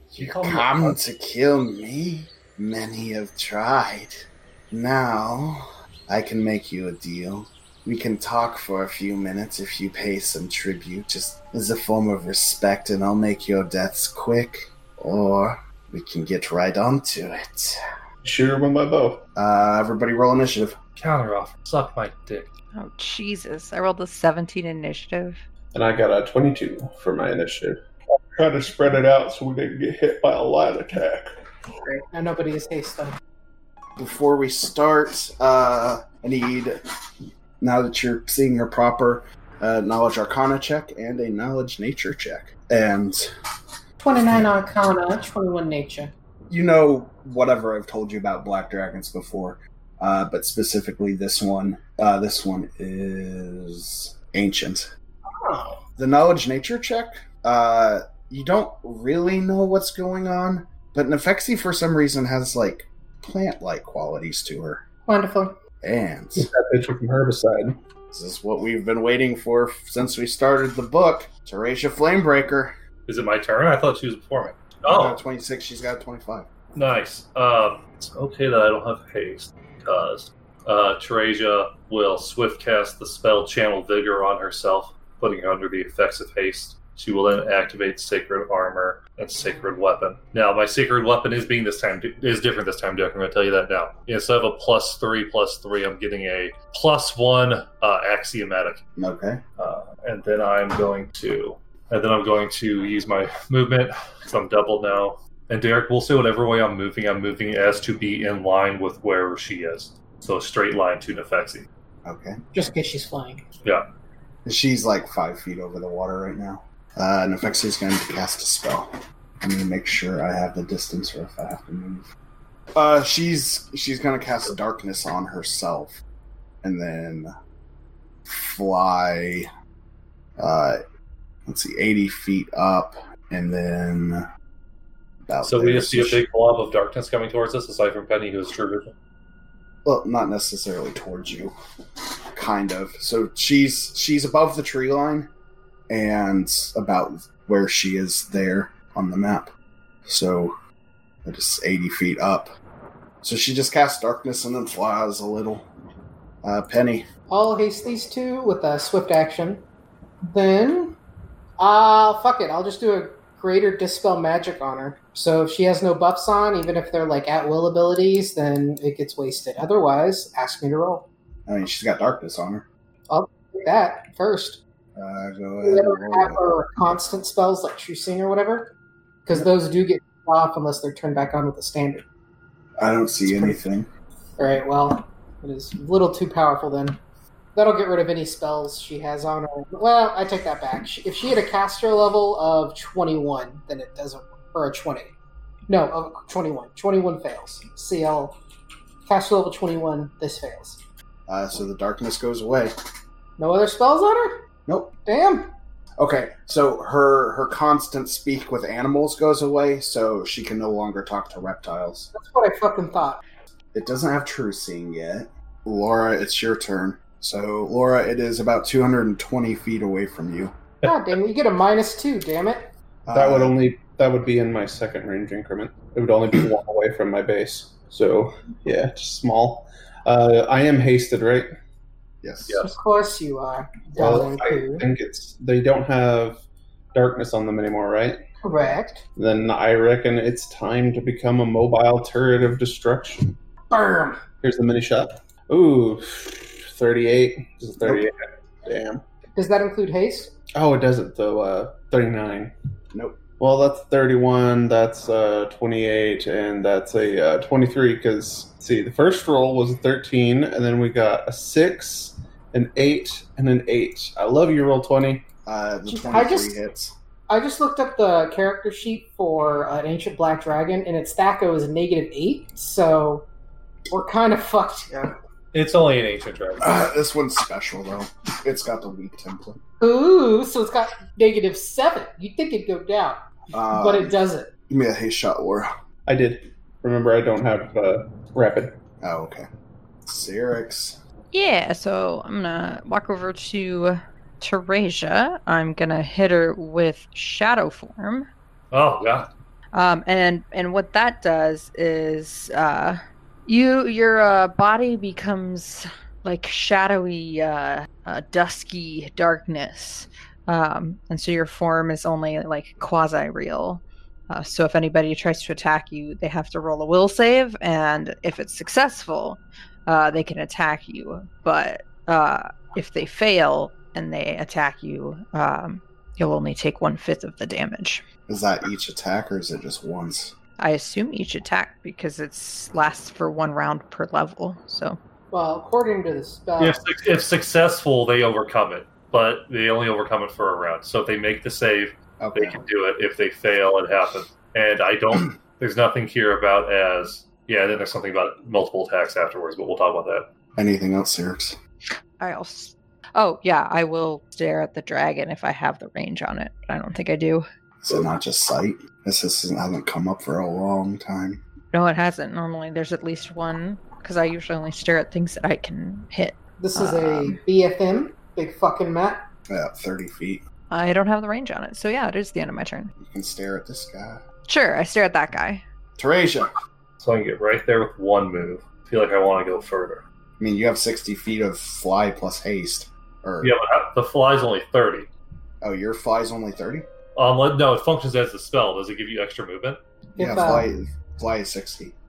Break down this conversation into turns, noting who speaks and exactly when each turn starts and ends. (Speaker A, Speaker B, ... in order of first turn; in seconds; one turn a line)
Speaker A: 0.1-17.8
Speaker B: 0.2-1.0
Speaker C: 18.2-19.2
Speaker A: 19.4-20.8
Speaker B: 21.0-22.5
Speaker D: 22.8-25.4
Speaker C: 25.7-27.8
Speaker C: 28.4-31.3
Speaker E: 31.9-33.2
Speaker A: 34.0-36.8
Speaker A: 37.6-43.2
Speaker E: 44.0-46.1
Speaker A: 46.5-54.9
Speaker E: 55.3-55.8
Speaker A: 56.0-64.9
Speaker E: 65.1-65.6
Speaker A: 65.8-66.5
Speaker C: 66.4-67.8
Speaker A: 68.1-72.8
Speaker B: 73.1-75.2
Speaker A: 74.9-76.5
Speaker B: 76.8-98.8
Speaker A: 99.0-99.4
Speaker B: 99.6-111.7
Speaker A: 112.0-112.4
Speaker E: 112.5-113.4
Speaker A: 114.5-118.9
Speaker A: 119.4-122.1
Speaker A: 122.8-126.0
Speaker A: 126.6-127.3
Speaker A: 128.3-129.5
Speaker A: 130.4-130.8
Speaker A: 131.5-134.2
Speaker A: 135.3-136.2
Speaker B: 135.4-138.9
Speaker A: 139.8-141.5
Speaker A: 142.3-145.3
Speaker A: 145.9-149.5
Speaker A: 150.1-150.6
Speaker A: 151.2-152.5
Speaker A: 153.2-155.7
Speaker A: 156.4-157.1
Speaker E: 157.3-159.6
Speaker E: 160.3-161.0
Speaker E: 161.6-171.1
Speaker A: 171.5-172.7
Speaker E: 173.1-174.6
Speaker A: 174.9-176.4
Speaker E: 175.7-178.7
Speaker E: 179.3-182.1
Speaker A: 182.8-183.9
Speaker E: 183.3-183.6
Speaker E: 184.4-187.0
Speaker E: 187.6-195.1
Speaker E: 195.7-198.4
Speaker E: 199.1-200.8
Speaker A: 201.3-202.7
Speaker E: 203.4-204.4
Speaker E: 205.1-205.5
Speaker A: 206.0-212.1
Speaker E: 212.1-213.2
Speaker A: 213.7-220.6
Speaker E: 220.8-222.7
Speaker A: 223.1-223.6
Speaker C: 223.1-231.5
Speaker A: 232.2-232.6
Speaker E: 232.6-234.8
Speaker C: 234.0-238.2
Speaker E: 238.4-239.0
Speaker C: 239.2-243.3
Speaker E: 243.7-244.2
Speaker C: 244.4-249.0
Speaker E: 249.3-250.3
Speaker C: 250.6-252.5
Speaker A: 252.9-253.2
Speaker C: 253.4-265.3
Speaker A: 265.5-266.9
Speaker E: 265.9-266.6
Speaker E: 267.3-273.3
Speaker E: 273.9-275.1
Speaker B: 275.5-276.9
Speaker A: 276.6-279.6
Speaker E: 279.8-283.2
Speaker A: 283.5-284.2
Speaker E: 283.7-284.5
Speaker A: 284.7-285.7
Speaker C: 286.1-288.8
Speaker A: 289.0-289.5
Speaker A: 290.1-291.0
Speaker D: 291.3-298.3
Speaker B: 298.7-299.3
Speaker D: 299.7-328.0
Speaker A: 328.3-330.4
Speaker D: 330.6-335.0
Speaker E: 335.3-336.8
Speaker B: 336.6-350.3
Speaker A: 342.2-342.6
Speaker A: 350.6-351.6
Speaker D: 352.2-357.4
Speaker A: 357.8-361.4
Speaker D: 361.7-367.4
Speaker E: 366.6-369.2
Speaker A: 369.5-370.4
Speaker D: 370.7-372.9
Speaker A: 373.0-374.2
Speaker D: 374.5-375.6
Speaker A: 376.0-376.5
Speaker B: 377.0-380.0
Speaker A: 380.4-383.5
Speaker B: 383.4-385.1
Speaker A: 385.6-386.9
Speaker B: 387.2-389.8
Speaker E: 390.2-390.7
Speaker A: 390.2-392.0